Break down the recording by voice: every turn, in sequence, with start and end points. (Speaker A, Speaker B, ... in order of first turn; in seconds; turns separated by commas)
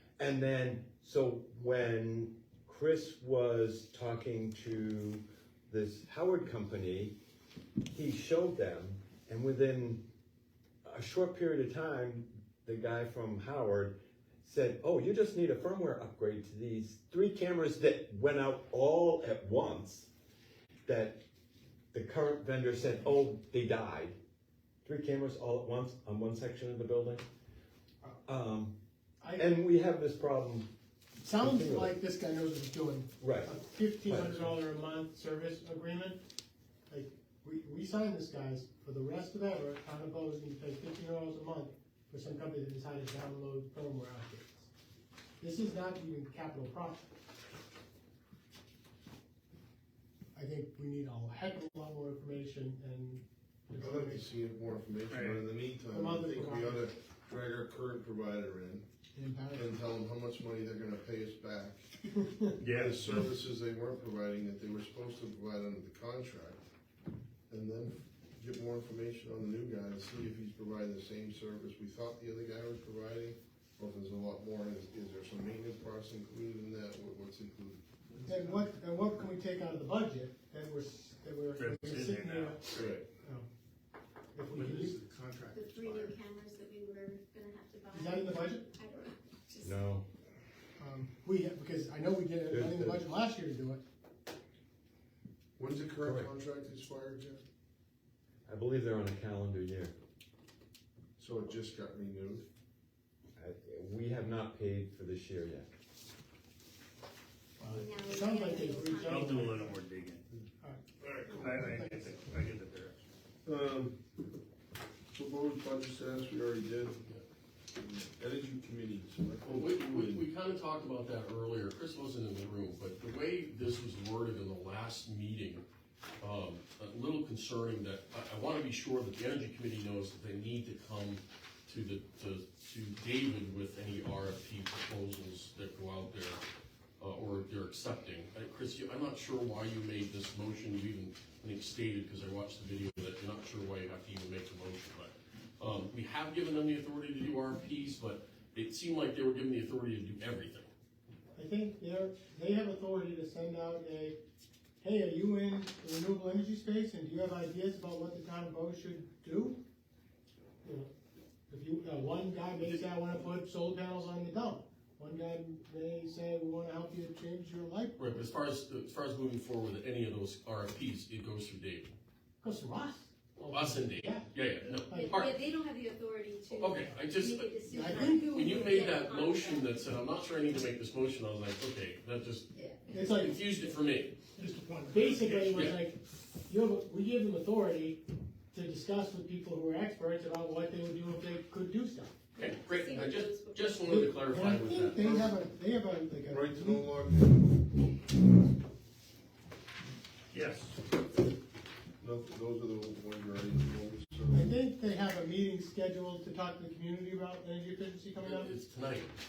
Speaker A: 0.2-7.2, Speaker A: 7.9-10.0, Speaker A: 10.8-20.1, Speaker A: 20.9-21.2, Speaker A: 21.9-24.2, Speaker A: 24.8-27.2, Speaker A: 28.3-28.8, Speaker B: 29.2-29.5, Speaker A: 29.3-30.7, Speaker B: 31.2-36.2, Speaker A: 31.3-32.0, Speaker A: 33.2-33.5, Speaker A: 34.0-34.5, Speaker B: 36.9-44.7, Speaker B: 45.4-47.0, Speaker B: 50.4-54.2, Speaker C: 53.8-58.9, Speaker D: 55.1-55.5, Speaker B: 55.9-56.9, Speaker B: 59.1-59.7, Speaker C: 59.5-61.9, Speaker B: 62.2-62.5, Speaker D: 62.6-63.1, Speaker C: 62.7-66.6, Speaker C: 67.5-77.8, Speaker D: 78.2-78.6, Speaker B: 78.3-82.6, Speaker D: 81.5-83.0, Speaker C: 82.7-83.0, Speaker B: 83.2-83.5, Speaker B: 84.3-85.0, Speaker D: 84.5-86.1, Speaker E: 85.5-89.8, Speaker B: 87.9-88.7, Speaker A: 89.6-90.1, Speaker B: 90.8-93.8, Speaker A: 92.5-93.0, Speaker C: 95.6-97.4, Speaker A: 96.0-96.3, Speaker A: 98.5-99.9, Speaker C: 101.2-102.5, Speaker A: 103.4-105.7, Speaker B: 107.6-109.7, Speaker E: 107.7-109.3, Speaker D: 109.1-110.2, Speaker C: 111.0-111.4, Speaker D: 111.3-113.0, Speaker B: 111.4-112.0, Speaker C: 113.5-114.0, Speaker C: 115.1-117.0, Speaker C: 117.9-120.3, Speaker F: 119.4-125.7, Speaker F: 126.2-136.4, Speaker F: 137.0-150.7, Speaker B: 151.3-154.2, Speaker B: 154.8-159.6, Speaker B: 160.6-160.9, Speaker B: 161.5-168.0, Speaker F: 162.6-163.0, Speaker F: 168.0-171.9, Speaker B: 172.4-174.3, Speaker F: 173.5-175.4, Speaker B: 174.9-175.2, Speaker E: 174.9-179.7, Speaker F: 176.5-184.2, Speaker B: 177.7-179.0, Speaker E: 182.6-182.9, Speaker B: 182.9-183.4, Speaker B: 184.4-192.1, Speaker D: 184.9-185.5, Speaker F: 185.4-185.8, Speaker E: 192.3-194.0, Speaker F: 192.4-195.2, Speaker B: 193.8-196.9, Speaker C: 195.0-195.3, Speaker C: 196.3-197.4, Speaker D: 200.3-200.8, Speaker C: 202.0-204.6, Speaker B: 204.3-208.6, Speaker F: 208.2-209.1